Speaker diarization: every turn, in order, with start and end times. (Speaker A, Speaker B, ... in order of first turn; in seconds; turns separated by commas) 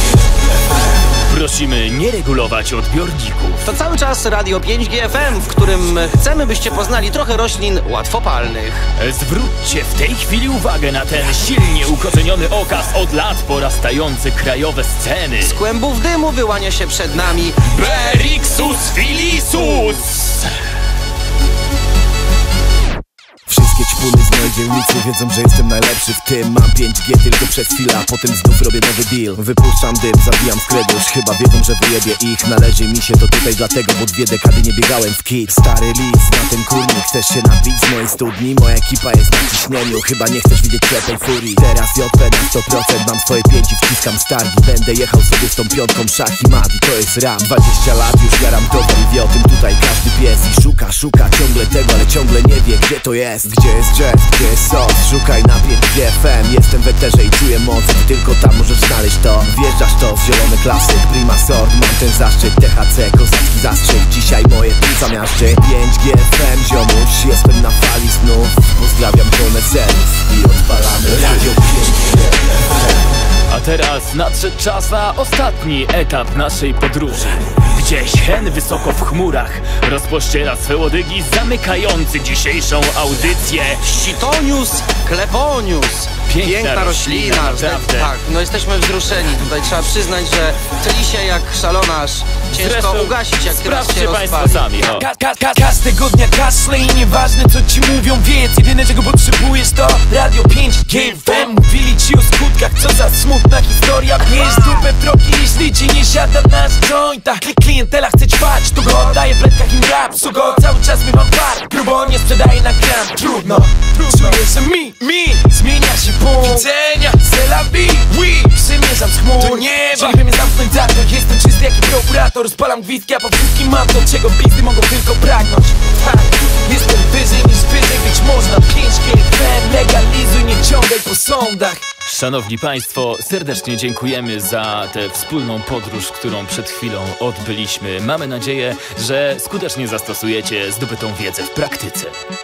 Speaker A: 1.3-3.6, Speaker B: 3.6-8.9, Speaker A: 9.0-15.6, Speaker B: 15.4-17.6, Speaker A: 17.6-20.5, Speaker C: 23.5-72.5, Speaker A: 73.5-84.1, Speaker B: 83.9-94.6, Speaker A: 86.3-88.1, Speaker A: 92.5-95.1, Speaker D: 94.8-131.9, Speaker A: 132.0-142.2